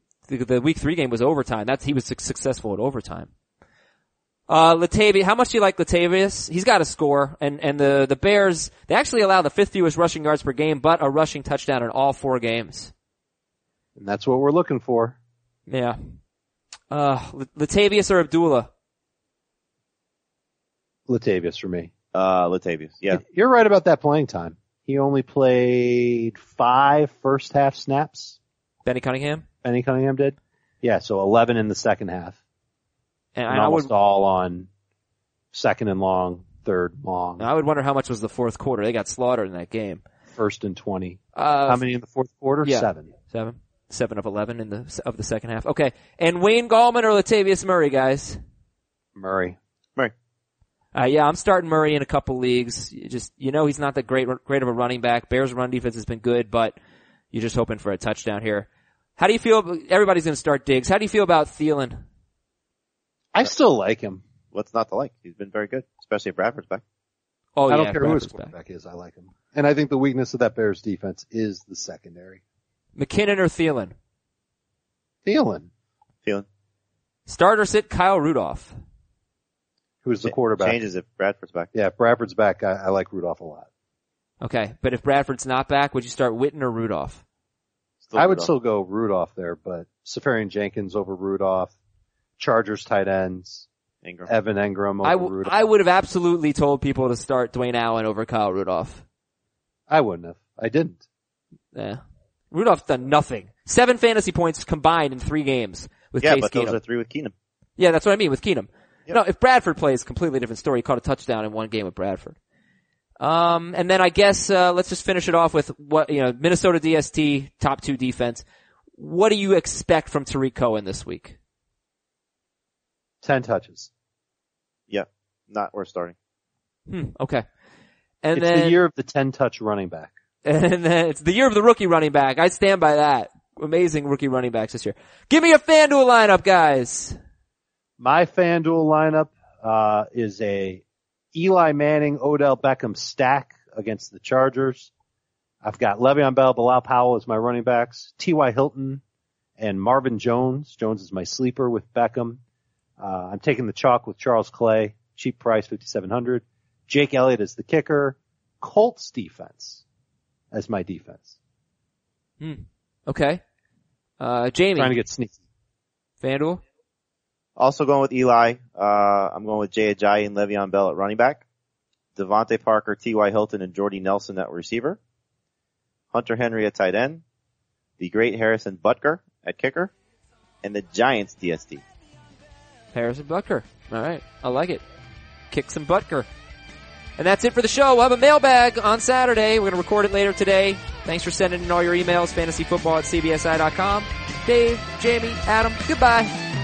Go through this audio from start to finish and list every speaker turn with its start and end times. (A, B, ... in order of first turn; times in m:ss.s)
0:00.3-0:03.3 A
0:04.5-0:12.9 A
0:14.0-0:15.2 B
0:15.7-0:16.0 A
0:16.9-0:18.7 A
0:21.1-0:21.9 B
0:22.1-0:23.2 C
0:23.1-0:28.4 B
0:28.8-0:29.4 A
0:29.6-0:32.4 B
0:33.4-0:33.9 A
0:33.5-0:34.7 B
0:35.5-0:37.4 B
0:37.4-0:40.0 A
0:40.4-0:43.1 B
0:41.4-0:41.8 A
0:42.6-0:48.4 A
0:49.1-0:49.6 B
0:50.9-0:56.8 A
0:57.3-1:02.0 A
1:03.3-1:04.2 B
1:04.5-1:06.8 C
1:07.6-1:08.5 A
1:07.7-1:12.4 B
1:13.0-1:13.9 A
1:15.2-1:15.7 B
1:17.3-1:18.7 A
1:20.0-1:20.8 B
1:20.2-1:21.7 C
1:21.7-1:23.7 B
1:24.4-1:27.2 A
1:28.0-1:28.5 C
1:28.1-1:31.7 B
1:32.4-1:33.7 B
1:34.0-1:34.3 C
1:34.3-1:35.6 B
1:35.0-1:39.0 A
1:39.9-1:41.0 B
1:41.7-1:46.8 A
1:46.2-1:47.3 C
1:47.8-1:52.4 A
1:53.2-1:58.4 A
1:59.0-2:01.4 A
2:03.2-2:03.9 B
2:04.9-2:06.1 C
2:06.9-2:07.4 A
2:08.2-2:08.8 A
2:08.4-2:10.1 B
2:10.4-2:17.2 A
2:18.0-2:20.8 B
2:21.3-2:24.9 B
2:25.6-2:29.0 B
2:29.6-2:32.4 B
2:33.0-2:39.8 B
2:40.5-2:41.4 B
2:42.4-2:43.4 A
2:44.2-2:45.0 A
2:44.8-2:45.4 B
2:46.2-2:46.6 A
2:47.6-2:51.4 C
2:52.2-2:55.0 C
2:56.1-2:57.2 C
2:58.0-2:59.9 C
3:00.6-3:01.8 C
3:02.9-3:04.8 A
3:05.5-3:06.3 A
3:07.2-3:16.3 A